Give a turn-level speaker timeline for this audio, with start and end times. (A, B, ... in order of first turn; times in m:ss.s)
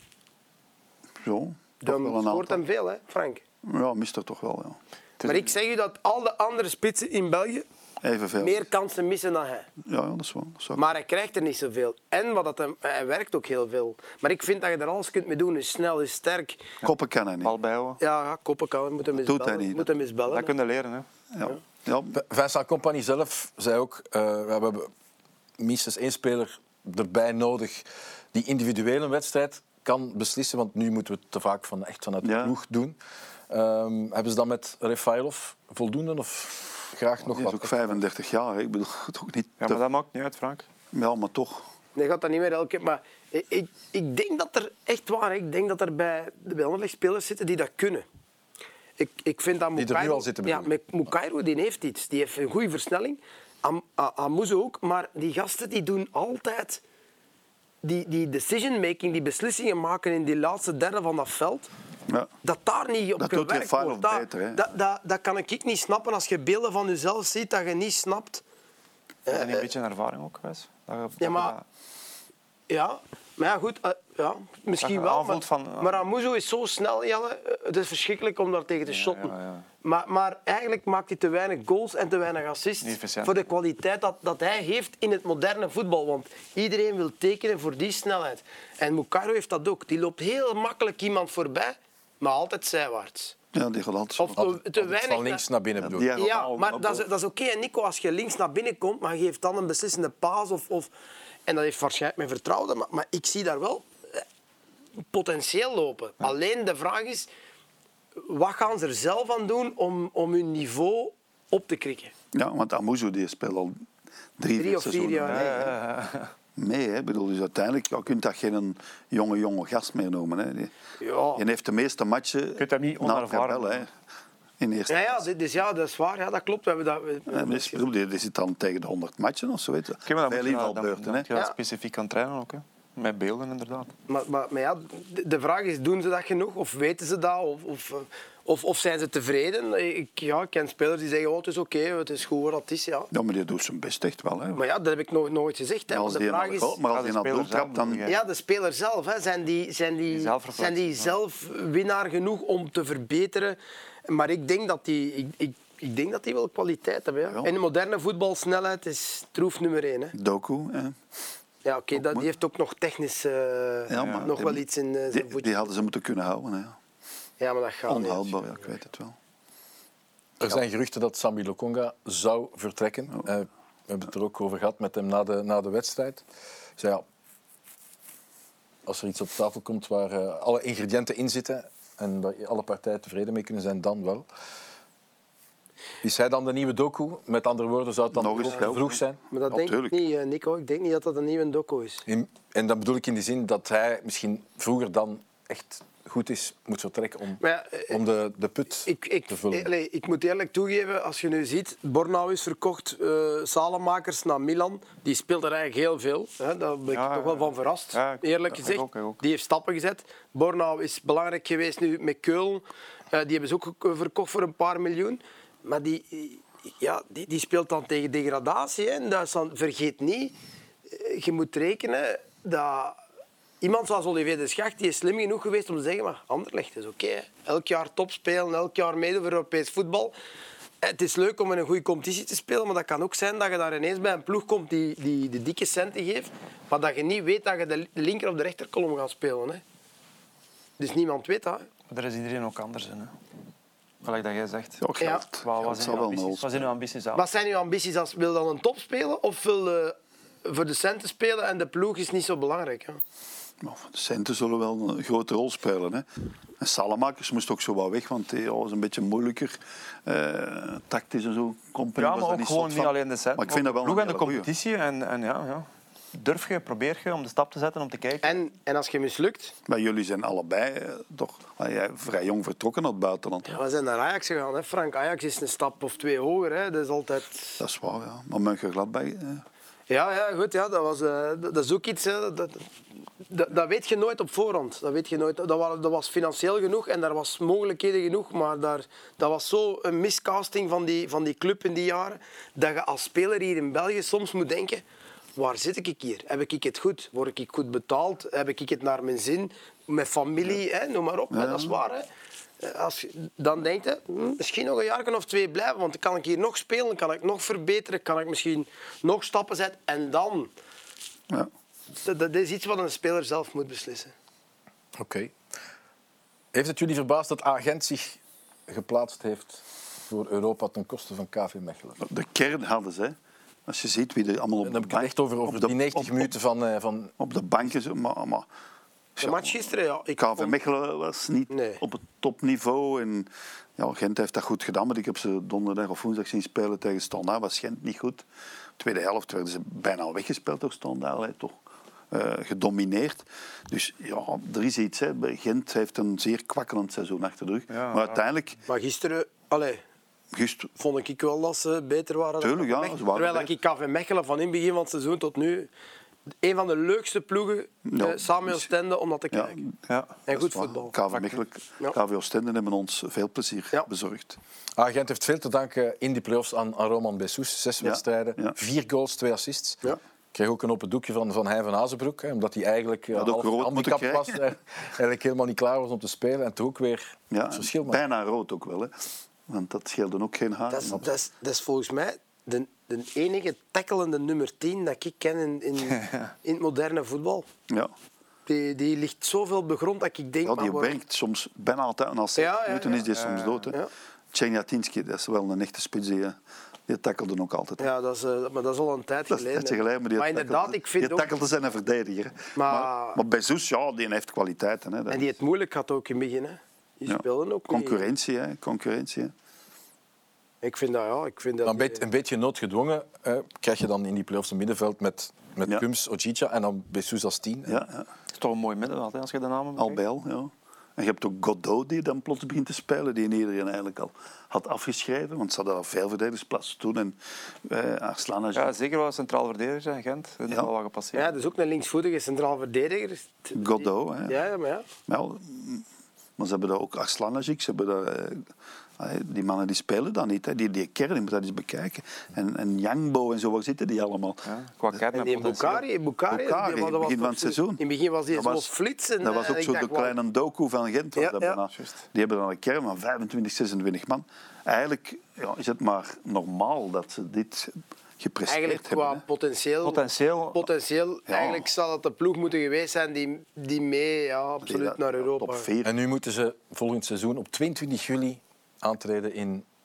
0:01.2-0:02.6 A
0:01.8-0:03.4 B
0:03.6-0:04.8 A
0:05.2-0:05.5 C
0:05.2-0:07.6 B
0:08.0-0:08.7 A
0:08.4-0:09.7 B
0:09.9-0:10.8 A
0:10.8-0:16.6 B
0:16.8-0:17.5 A
0:17.4-0:18.0 C
0:18.0-0:20.5 B
0:19.2-0:19.9 A
0:20.3-0:21.1 C
0:21.3-0:22.2 A
0:22.1-0:24.9 D
0:25.6-0:33.0 D
0:32.2-0:32.5 A
0:33.5-0:38.0 D
0:37.3-0:39.8 A
0:39.6-0:40.7 C
0:40.9-0:41.7 A
0:42.0-0:48.0 B
0:49.0-0:56.8 B
0:49.7-0:50.7 D
0:57.8-1:01.7 B
1:02.4-1:08.4 B
1:03.2-1:04.7 A
1:09.3-1:09.7 B
1:09.3-1:11.6 C
1:11.2-1:11.6 B
1:12.7-1:33.4 B
1:14.8-1:16.0 C
1:18.9-1:19.7 C
1:22.8-1:23.4 C
1:33.5-1:34.4 A
1:34.2-1:35.4 B
1:34.4-1:36.1 D
1:35.8-1:37.1 A
1:36.2-1:40.9 B
1:41.4-1:44.2 B
1:45.1-1:47.3 B
1:48.2-1:52.1 B
1:52.3-1:53.8 A
1:54.4-1:55.8 A
1:54.6-1:55.7 B
1:55.3-1:56.3 C
1:56.6-2:00.7 A
2:01.0-2:01.4 B
2:01.4-2:03.9 A
2:02.6-2:03.9 C
2:04.6-2:05.2 A
2:04.9-2:07.8 B
2:07.3-2:11.3 A
2:10.1-2:13.9 C
2:14.1-2:23.1 B
2:23.1-2:24.6 A
2:24.6-2:26.8 B
2:25.9-2:28.1 A
2:26.9-2:28.2 C
2:28.1-2:40.1 B
2:30.1-2:31.2 C
2:40.1-2:41.0 A
2:41.6-2:45.7 B
2:42.0-2:42.3 A
2:43.9-2:46.8 A
2:44.0-2:44.3 C
2:47.4-2:48.4 B
2:47.9-2:49.2 A
2:50.4-2:56.2 D
2:56.8-2:57.0 D
2:58.9-3:04.3 D
3:06.0-3:09.2 D
3:08.1-3:10.0 A
3:09.3-3:12.0 B
3:12.1-3:19.7 D
3:17.4-3:18.0 B
3:18.8-3:40.3 B
3:26.9-3:29.2 C
3:40.9-3:43.0 B
3:43.6-3:50.1 B
3:50.8-3:59.6 B
4:00.8-4:01.7 B
4:01.9-4:03.1 C
4:04.0-4:04.8 C
4:04.8-4:06.7 A
4:05.4-4:07.2 C
4:07.1-4:13.0 B
4:13.6-4:16.0 A
4:16.6-4:24.5 A
4:22.0-4:28.4 C
4:28.2-4:29.6 B
4:29.7-4:33.5 A
4:33.4-4:37.6 B
4:37.6-4:39.4 A
4:39.9-4:42.6 B
4:43.3-4:54.8 B
4:55.4-5:02.1 B
5:01.3-5:01.7 A
5:02.6-5:10.5 B
5:12.0-5:14.1 B
5:15.0-5:15.3 D
5:16.5-5:22.0 D
5:22.0-5:23.2 A
5:23.7-5:26.3 A
5:24.6-5:27.1 D
5:27.2-5:28.5 A
5:29.2-5:29.6 A
5:29.2-5:30.6 B
5:30.2-5:38.2 A
5:31.5-5:31.8 B
5:38.8-5:41.6 A
5:42.1-5:48.6 A
5:47.7-5:48.2 C
5:48.7-5:49.8 B
5:50.3-5:50.7 A
5:50.8-5:55.7 B
5:52.4-5:53.5 A
5:56.4-5:59.6 B
5:57.8-5:58.7 A
5:59.3-5:59.7 A
5:59.9-6:00.2 C
6:00.3-6:01.0 B
6:00.3-6:04.4 A
6:04.8-6:09.8 D
6:07.8-6:08.6 A
6:10.3-6:18.0 D
6:13.1-6:14.4 A
6:17.3-6:18.9 A
6:19.5-6:21.0 A
6:20.7-6:27.4 B
6:28.4-6:31.0 B
6:30.4-6:33.8 A
6:32.4-6:33.0 B
6:33.0-6:33.7 C
6:34.3-6:37.9 A
6:37.8-6:41.3 B
6:39.3-6:45.3 A
6:42.6-6:43.2 B
6:45.1-6:48.1 B
6:47.1-6:49.3 A
6:50.6-6:52.0 B
6:51.6-6:57.8 D
6:57.7-6:58.1 A
6:58.3-7:00.0 C
6:59.8-7:08.7 A
7:08.5-7:11.3 C
7:11.1-7:14.9 B
7:13.6-7:14.4 A
7:15.1-7:15.8 A
7:16.4-7:18.4 A
7:19.0-7:25.0 A
7:24.4-7:25.8 C
7:25.1-7:30.1 B
7:26.3-7:28.7 A
7:29.2-7:39.2 A
7:31.2-7:31.6 B
7:38.5-7:40.0 B
7:39.8-7:40.7 C
7:40.5-7:45.7 B
7:41.3-7:41.6 A
7:44.6-7:45.9 A
7:45.8-7:49.6 D